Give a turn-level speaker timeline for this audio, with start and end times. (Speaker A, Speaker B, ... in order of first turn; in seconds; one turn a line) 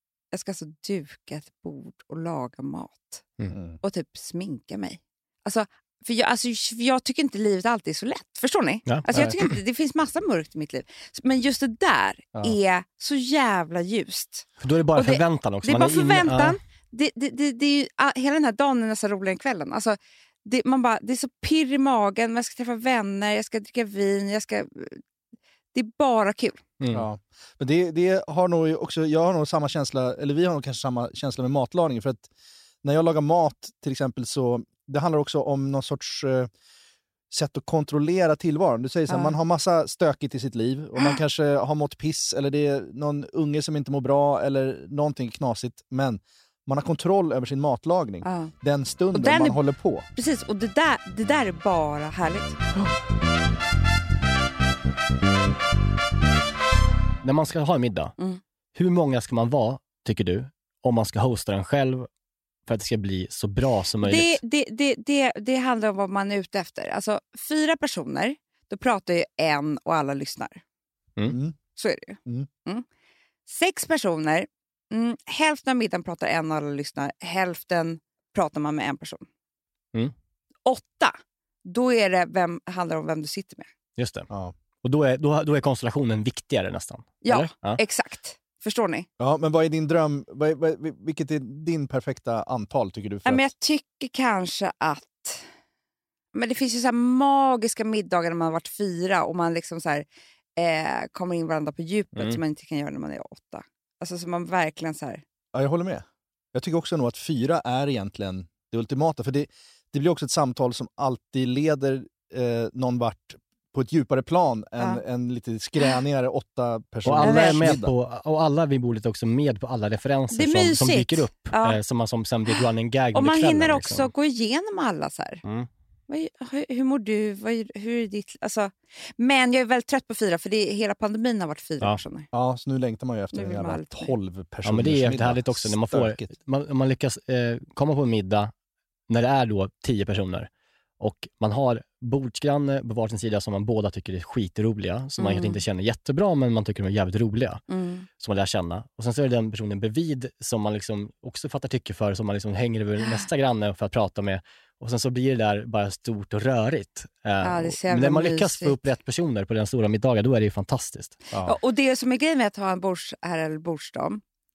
Speaker A: 0.3-3.2
Speaker B: 3.5-3.8
Speaker A: 3.8-25.0
Speaker C: 8.9-9.6
Speaker C: 14.6-16.6
Speaker A: 25.7-26.6
Speaker C: 26.8-27.1
Speaker B: 26.9-32.3
Speaker B: 32.8-36.5
Speaker B: 37.3-50.1
Speaker A: 39.1-39.3
Speaker A: 48.2-48.5
Speaker A: 49.1-49.6
Speaker A: 50.2-52.6
Speaker C: 57.2-58.1
Speaker C: 58.8-62.1
Speaker C: 62.7-64.4
Speaker A: 64.0-70.6
Speaker B: 71.3-71.6
Speaker A: 71.8-72.8
Speaker A: 73.5-79.2
Speaker A: 80.7-83.7
Speaker C: 84.0-84.3
Speaker C: 84.8-87.8
Speaker A: 87.2-89.1
Speaker B: 89.2-93.5
Speaker A: 93.2-95.5
Speaker A: 96.3-100.0
Speaker A: 100.6-105.2
Speaker B: 105.5-117.9
Speaker C: 117.0-124.1
Speaker A: 117.2-117.6
Speaker A: 120.3-121.8
Speaker A: 122.5-125.4
Speaker A: 126.1-132.3
Speaker B: 132.3-136.3
Speaker A: 133.3-134.2
Speaker C: 134.7-138.5
Speaker C: 139.1-140.5
Speaker C: 141.0-147.6
Speaker A: 145.2-145.6
Speaker A: 147.7-148.1
Speaker C: 148.2-161.2
Speaker A: 153.0-153.3
Speaker A: 157.4-158.8
Speaker A: 161.4-164.2